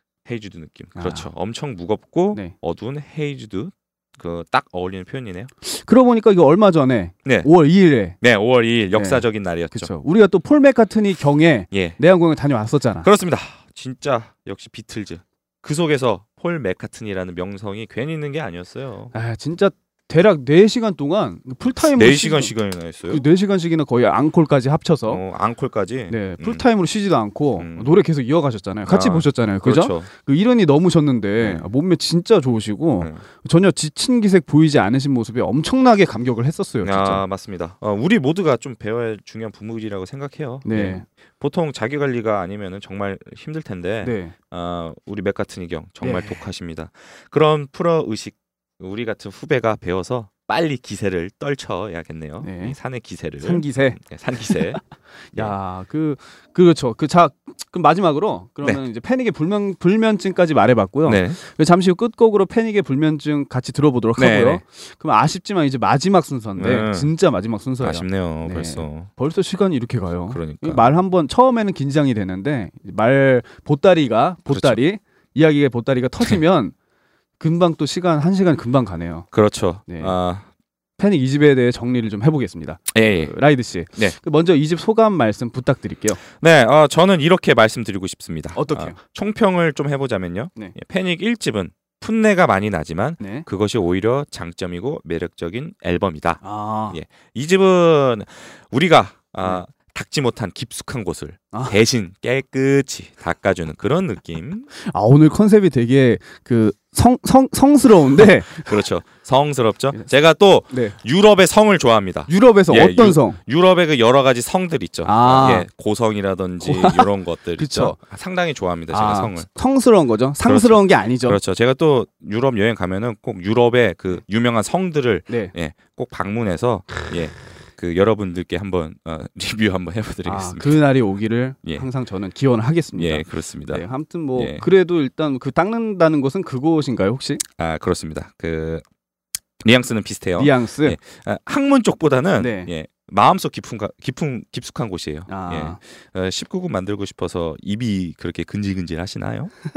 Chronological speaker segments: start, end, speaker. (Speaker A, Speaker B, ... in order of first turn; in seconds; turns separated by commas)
Speaker A: 0.2-5.5, Speaker B: 0.9-1.3, Speaker B: 5.7-8.1, Speaker A: 8.2-9.9, Speaker B: 8.9-13.1, Speaker A: 11.7-12.0, Speaker A: 13.0-19.1, Speaker B: 19.1-22.5, Speaker A: 21.8-23.2, Speaker B: 23.1-25.2, Speaker A: 25.1-26.6, Speaker B: 26.1-37.2, Speaker A: 27.6-28.0, Speaker A: 28.9-30.1, Speaker A: 31.4-31.6, Speaker A: 36.8-54.8, Speaker B: 40.6-41.0, Speaker B: 44.0-44.3, Speaker B: 46.0-46.4, Speaker B: 52.4-52.8, Speaker B: 53.4-54.0, Speaker B: 55.4-76.7, Speaker A: 61.0-61.4, Speaker A: 64.2-64.6, Speaker A: 66.6-67.1, Speaker A: 67.8-69.1, Speaker A: 70.3-70.8, Speaker A: 74.5-74.8, Speaker B: 77.4-79.2, Speaker A: 79.3-80.4, Speaker B: 79.9-80.1, Speaker B: 81.0-86.2, Speaker A: 82.9-83.3, Speaker A: 86.4-104.7, Speaker B: 88.5-89.0, Speaker B: 96.4-97.0, Speaker B: 104.9-108.7, Speaker A: 108.1-119.5, Speaker B: 112.3-113.4, Speaker B: 115.0-115.7, Speaker B: 116.6-117.0, Speaker B: 117.6-118.0, Speaker B: 118.9-121.4, Speaker A: 120.4-130.8, Speaker B: 130.2-137.4, Speaker A: 132.9-133.8, Speaker A: 134.3-134.6, Speaker A: 137.6-138.8, Speaker A: 139.6-149.5, Speaker B: 140.4-140.9, Speaker B: 142.4-142.7, Speaker B: 145.3-145.8